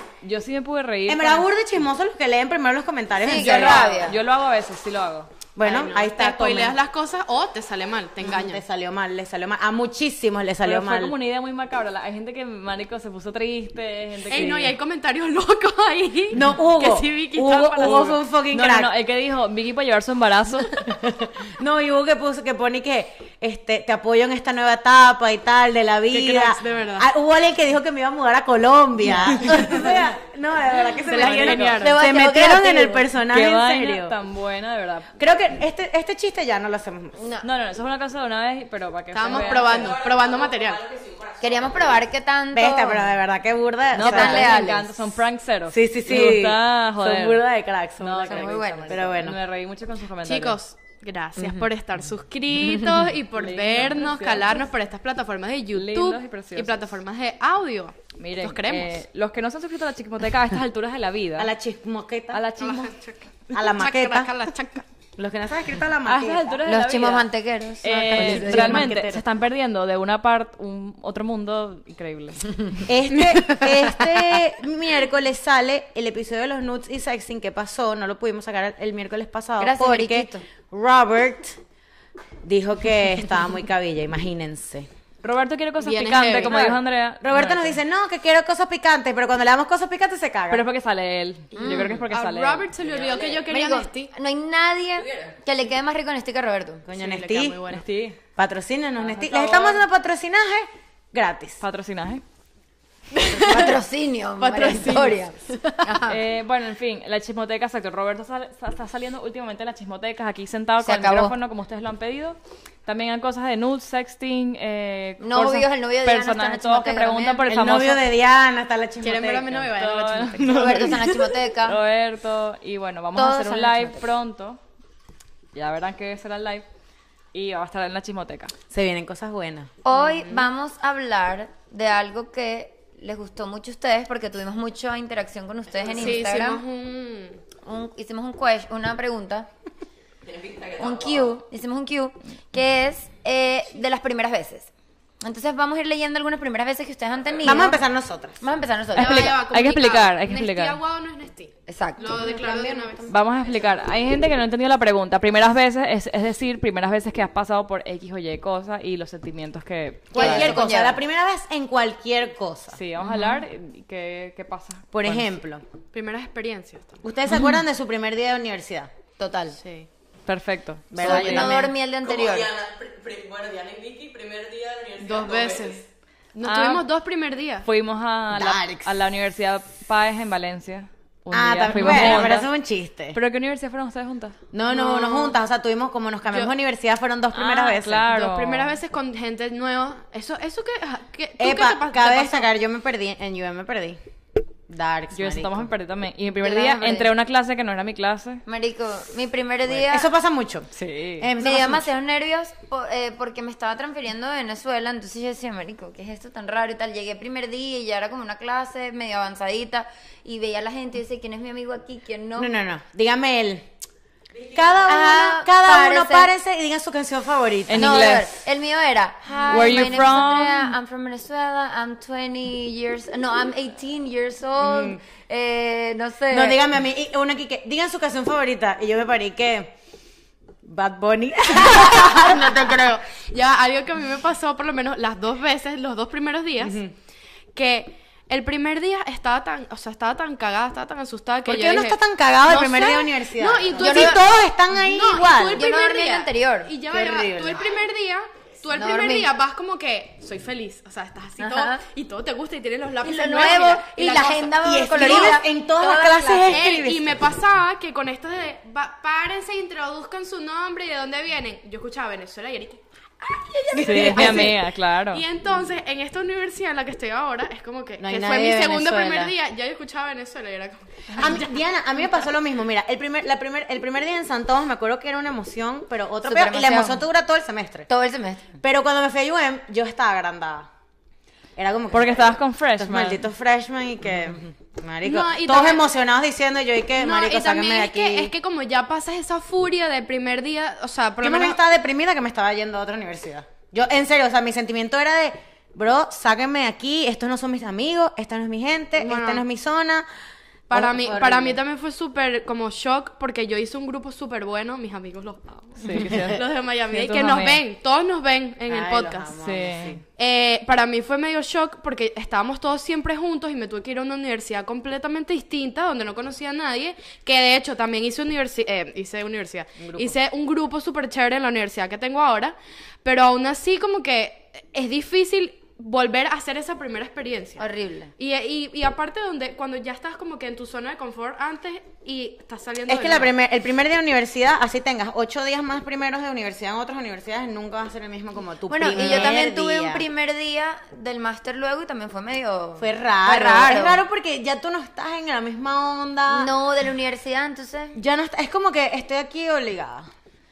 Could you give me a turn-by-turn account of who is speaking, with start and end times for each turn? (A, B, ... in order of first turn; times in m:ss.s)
0:00.2-0:01.4 A
0:01.1-0:04.1 B
0:03.2-0:04.2 C
0:03.3-0:05.3 A
0:05.6-0:06.8 B
0:05.6-0:08.6 D
0:08.2-0:11.1 B
0:10.6-0:14.8 A
0:14.3-0:18.2 D
0:16.3-0:18.9 B
0:17.8-0:20.9 A
0:20.9-0:34.1 B
0:26.1-0:27.0 D
0:29.4-0:29.8 A
0:31.0-0:32.0 D
0:31.1-0:31.9 A
0:31.8-0:33.1 C
0:33.3-0:35.1 A
0:35.2-0:37.2 B
0:37.2-0:37.5 C
0:37.4-0:40.0 A
0:39.1-0:40.8 D
0:39.2-0:42.1 E
0:41.4-0:43.1 C
0:42.5-0:44.9 B
0:43.9-0:47.4 A
0:44.0-0:44.9 C
0:45.7-0:49.4 B
0:48.0-0:50.6 A
0:48.2-0:49.2 C
0:50.2-0:58.9 D
0:51.4-0:51.7 B
0:53.4-0:54.6 A
0:55.7-0:56.9 A
0:58.2-1:01.5 A
1:01.4-1:02.4 B
1:02.3-1:03.0 A
1:02.6-1:04.9 D
1:03.5-1:04.3 B
1:05.2-1:06.6 B
1:06.0-1:07.3 A
1:06.7-1:08.9 C
1:07.8-1:12.6 A
1:08.1-1:09.2 B
1:12.8-1:21.6 B
1:13.1-1:13.4 D
1:13.4-1:13.9 C
1:19.6-1:20.4 C
1:22.4-1:24.9 B
1:25.2-1:27.8 A
1:25.8-1:26.7 D
1:26.4-1:30.6 B
1:30.5-1:32.7 A
1:31.5-1:32.0 C
1:32.1-1:34.1 D
1:32.8-1:33.5 E
1:33.5-1:36.8 C
1:35.0-1:35.3 E
1:36.8-1:37.8 B
1:36.9-1:37.8 D
1:37.7-1:38.2 A
1:38.4-1:41.6 B
1:41.6-1:42.2 A
1:43.1-1:43.8 D
1:43.3-1:46.2 C
1:44.4-1:45.1 D
1:44.7-1:45.0 B
1:46.1-1:58.0 A
1:50.8-1:51.3 C
1:55.2-1:57.5 C
1:57.5-1:59.8 B
1:59.0-2:01.3 D
1:59.8-2:04.6 A
2:00.4-2:01.8 C
2:03.2-2:04.0 C
2:05.5-2:06.7 A
2:07.3-2:08.5 A
2:08.7-2:09.7 B
2:09.8-2:16.6 C
2:09.9-2:10.4 D
2:15.9-2:17.4 D
2:17.6-2:19.5 C
2:20.2-2:21.4 E
2:20.8-2:24.7 C
2:25.2-2:27.8 C
2:27.4-2:28.4 B
2:28.4-2:29.4 C
2:28.9-2:30.8 A
2:28.9-2:33.1 D
2:31.7-2:32.2 C
2:32.0-2:33.2 B
2:33.1-2:40.5 A
2:40.1-2:42.8 B
2:40.1-2:41.0 C
2:42.7-2:45.3 A
2:44.9-2:45.6 B
2:45.9-2:47.0 D
2:47.0-2:48.9 B
2:49.2-2:49.6 C
2:49.6-2:49.9 D
2:50.3-2:51.6 A
2:50.9-2:51.7 B
2:51.0-2:52.5 C
2:52.0-2:55.9 E
2:55.0-2:55.8 D
2:56.3-2:57.7 D
2:56.4-2:56.8 A
2:57.6-3:02.5 A
2:58.3-2:58.9 B
3:01.3-3:03.2 B
3:01.8-3:02.2 D
3:03.1-3:04.4 A
3:04.5-3:08.1 B
3:04.7-3:05.4 D
3:07.4-3:08.8 A
3:08.1-3:12.5 D
3:11.4-3:14.0 B
3:14.7-3:15.7 B
3:15.1-3:18.4 A
3:16.4-3:17.1 C
3:18.4-3:20.1 C
3:19.7-3:21.9 B
3:20.7-3:21.3 A
3:21.4-3:32.5 C
3:32.4-3:33.7 B
3:34.3-3:35.2 E
3:34.5-3:38.1 B
3:34.8-3:36.3 C
3:37.7-3:38.4 A
3:37.8-3:46.6 C
3:39.5-3:40.8 A
3:44.6-3:45.0 B
3:46.3-3:49.7 B
3:50.6-3:53.0 B
3:51.5-3:56.8 D
3:56.6-3:56.9 B
3:57.5-4:15.4 D
4:01.4-4:05.6 B
4:03.8-4:04.3 C
4:05.5-4:06.7 C
4:06.9-4:07.7 B
4:08.8-4:09.3 C
4:11.4-4:11.8 C
4:13.0-4:16.8 C
4:14.5-4:17.2 B
4:16.5-4:31.6 D
4:23.7-4:24.6 B
4:23.8-4:25.2 A
4:28.0-4:29.4 B
4:31.2-4:37.9 B
4:36.2-4:37.0 C
4:37.9-4:38.5 C
4:38.6-4:40.7 B
4:41.6-4:48.3 B
4:41.9-4:43.2 A
4:45.0-4:45.8 D
4:47.0-4:51.6 D
4:51.2-5:00.1 B
4:59.0-4:59.4 D
5:00.7-5:09.4 D
5:00.7-5:01.6 B
5:05.8-5:07.6 A
5:08.7-5:10.0 B
5:09.4-5:10.0 A
5:10.2-5:33.3 D
5:19.8-5:20.2 B
5:27.6-5:28.1 C
5:32.9-5:40.0 B
5:38.7-5:44.0 C
5:42.8-5:46.5 B
5:46.3-5:48.0 C
5:48.0-5:50.1 B